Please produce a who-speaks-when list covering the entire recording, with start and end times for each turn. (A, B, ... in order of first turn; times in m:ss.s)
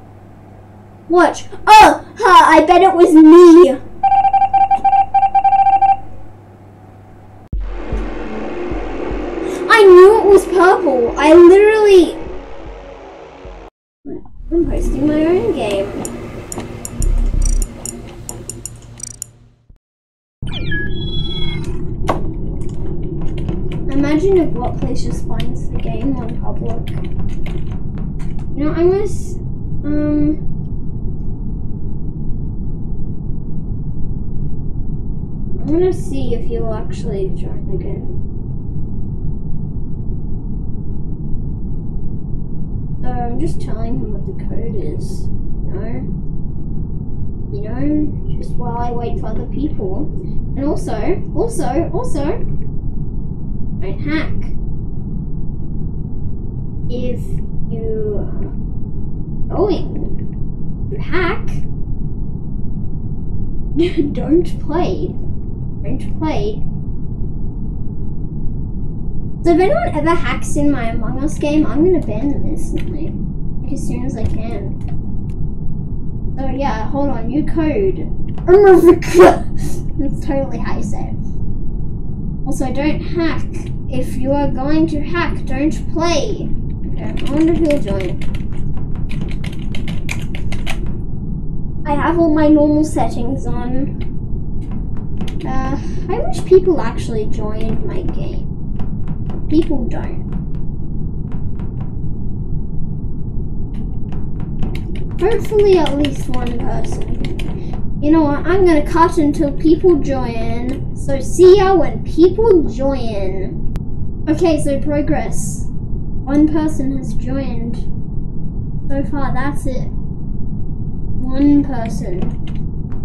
0:01.1-0:03.8 A
0:09.6-0:12.2 A
0:14.0-0:16.0 A
0:23.9-0:27.0 A
0:28.5-0:30.4 A
0:35.6-0:38.1 A
0:43.0-0:46.1 A
0:47.5-0:52.4 A
0:53.8-0:54.5 A
0:56.9-0:58.5 A
0:59.5-1:00.2 A
1:00.9-1:01.6 A
1:03.8-1:05.2 A
1:05.8-1:06.6 A
1:09.4-1:14.8 A
1:16.4-1:21.2 A
1:22.4-1:28.2 A
1:31.8-1:34.0 A
1:35.4-1:38.5 A
1:39.5-1:40.2 A
1:45.2-1:47.5 A
1:48.0-1:53.6 A
1:54.3-1:55.7 A
1:56.2-1:57.9 A
1:58.9-1:59.9 A
2:01.2-2:02.4 A